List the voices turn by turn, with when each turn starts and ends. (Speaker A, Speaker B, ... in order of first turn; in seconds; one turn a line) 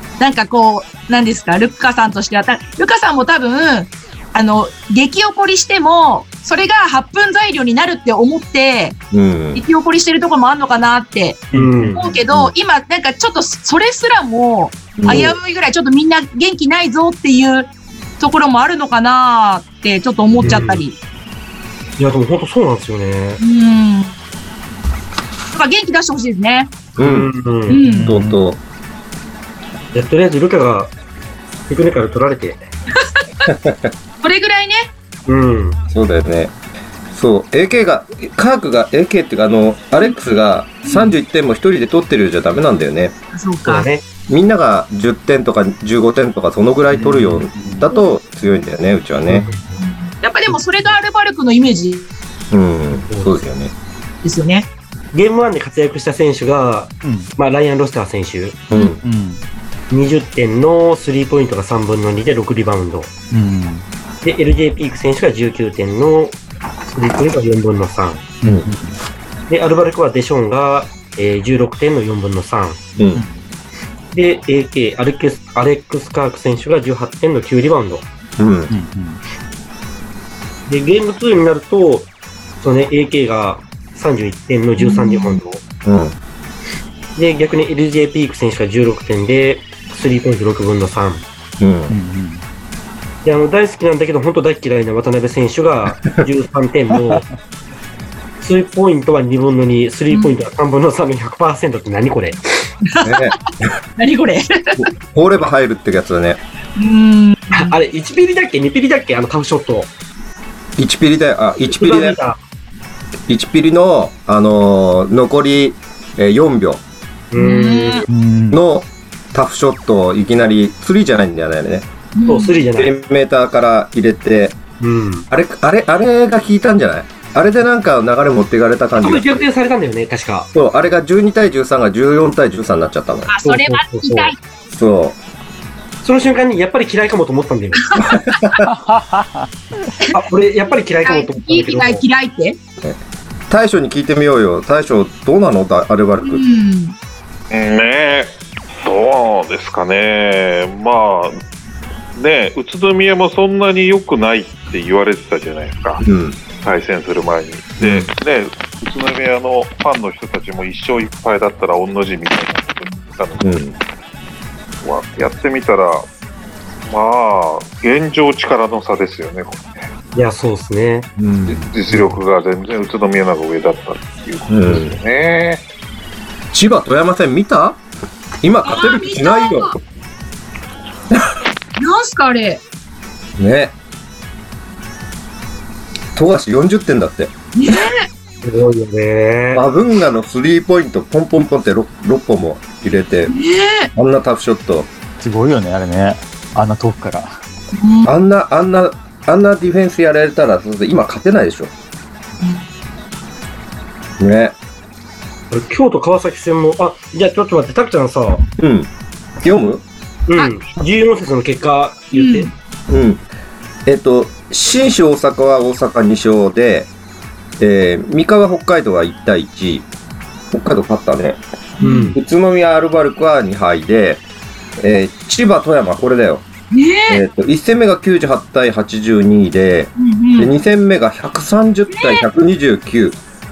Speaker A: 0.2-9.0
Speaker B: 9.1-9.6
Speaker A: 9.5-21.0
Speaker C: 11.5-12.1
Speaker D: 11.5-12.1
Speaker B: 12.3-12.5
Speaker B: 15.0-15.3
Speaker D: 15.1-15.4
Speaker D: 20.4-20.8
Speaker D: 22.0-23.4
Speaker A: 23.4-24.1
Speaker A: 25.5-26.7
Speaker B: 26.9-27.3
Speaker D: 27.0-27.8
Speaker A: 27.7-28.2
Speaker C: 27.7-28.4
Speaker B: 27.9-28.6
Speaker D: 29.9-30.9
Speaker D: 31.7-32.6
Speaker A: 32.9-33.5
Speaker B: 33.5-33.9
Speaker A: 34.2-34.9
Speaker D: 35.3-35.8
Speaker B: 35.9-36.5
Speaker B: 37.1-43.1
Speaker A: 40.8-41.1
Speaker A: 43.3-43.9
Speaker D: 43.6-44.0
Speaker B: 44.3-49.5
Speaker C: 46.9-47.9
Speaker D: 49.3-49.8
Speaker A: 49.8-52.1
Speaker B: 52.5-53.7
Speaker D: 53.1-53.4
Speaker A: 54.2-54.7
Speaker D: 55.1-58.6
Speaker C: 57.0-57.3
Speaker B: 58.7-59.0
Speaker C: 59.0-59.4
Speaker D: 59.9-63.1
Speaker C: 63.3-63.8
Speaker D: 64.2-68.3
Speaker C: 68.4-69.0
Speaker B: 68.4-68.7
Speaker D: 69.5-72.8
Speaker B: 73.0-73.2
Speaker C: 73.1-73.4
Speaker D: 74.1-78.0
Speaker B: 78.4-78.7
Speaker C: 78.7-79.2
Speaker D: 80.7-82.1
Speaker D: 82.6-85.6
Speaker A: 84.8-85.4
Speaker B: 85.8-86.2
Speaker D: 87.2-91.2
Speaker B: 91.6-91.9
Speaker C: 91.9-92.4
Speaker D: 93.2-97.2
Speaker D: 98.4-102.7
Speaker A: 100.1-100.4
Speaker A: 102.8-103.4
Speaker B: 103.0-103.7
Speaker A: 104.0-104.9
Speaker B: 104.8-106.4
Speaker A: 106.8-107.7
Speaker D: 107.5-109.9
Speaker B: 110.8-112.2
Speaker D: 111.6-112.4
Speaker B: 113.3-116.8
Speaker D: 117.3-118.0
Speaker A: 117.3-118.0
Speaker C: 118.1-118.6
Speaker B: 118.5-121.9
Speaker A: 122.2-122.6
Speaker D: 122.2-122.9
Speaker B: 122.8-124.6
Speaker D: 124.8-125.2
Speaker B: 125.3-129.4
Speaker D: 129.0-130.5
Speaker B: 130.5-133.3
Speaker A: 133.3-134.4
Speaker D: 133.4-134.3
Speaker B: 134.7-135.2
Speaker D: 136.0-138.1
Speaker A: 137.8-138.5
Speaker B: 138.0-138.7
Speaker C: 138.6-139.9
Speaker D: 140.1-142.0
Speaker A: 141.0-142.6
Speaker B: 142.8-146.4
Speaker A: 146.2-146.9
Speaker E: 147.5-151.4
Speaker E: 152.2-156.1
Speaker B: 156.0-156.4
Speaker E: 156.6-163.5
Speaker B: 157.8-158.1
Speaker B: 163.4-163.8
Speaker E: 164.8-166.1
Speaker E: 166.9-169.6
Speaker D: 170.1-171.1
Speaker B: 171.2-171.8
Speaker E: 171.5-175.6
Speaker B: 174.5-175.0
Speaker B: 176.5-177.8
Speaker B: 178.4-179.7
Speaker A: 178.6-179.7
Speaker A: 181.8-182.6
Speaker B: 183.4-183.7
Speaker B: 186.1-187.8
Speaker A: 187.6-188.1
Speaker D: 188.4-189.6
Speaker B: 189.5-193.3
Speaker A: 193.3-193.9
Speaker B: 193.9-194.9
Speaker C: 195.2-197.4
Speaker A: 197.7-198.1
Speaker B: 198.0-201.7
Speaker B: 204.2-204.5
Speaker D: 205.5-208.4
Speaker B: 208.6-208.9
Speaker B: 209.4-209.8
Speaker D: 210.3-212.5
Speaker A: 212.1-212.5
Speaker B: 212.9-213.2
Speaker B: 213.8-216.9
Speaker B: 217.6-219.9
Speaker B: 220.5-221.4
Speaker A: 221.8-222.2
Speaker D: 221.8-222.2
Speaker B: 222.1-224.2
Speaker B: 224.8-226.4
Speaker A: 226.7-227.2
Speaker B: 227.1-233.2
Speaker A: 229.9-230.5
Speaker A: 231.9-232.2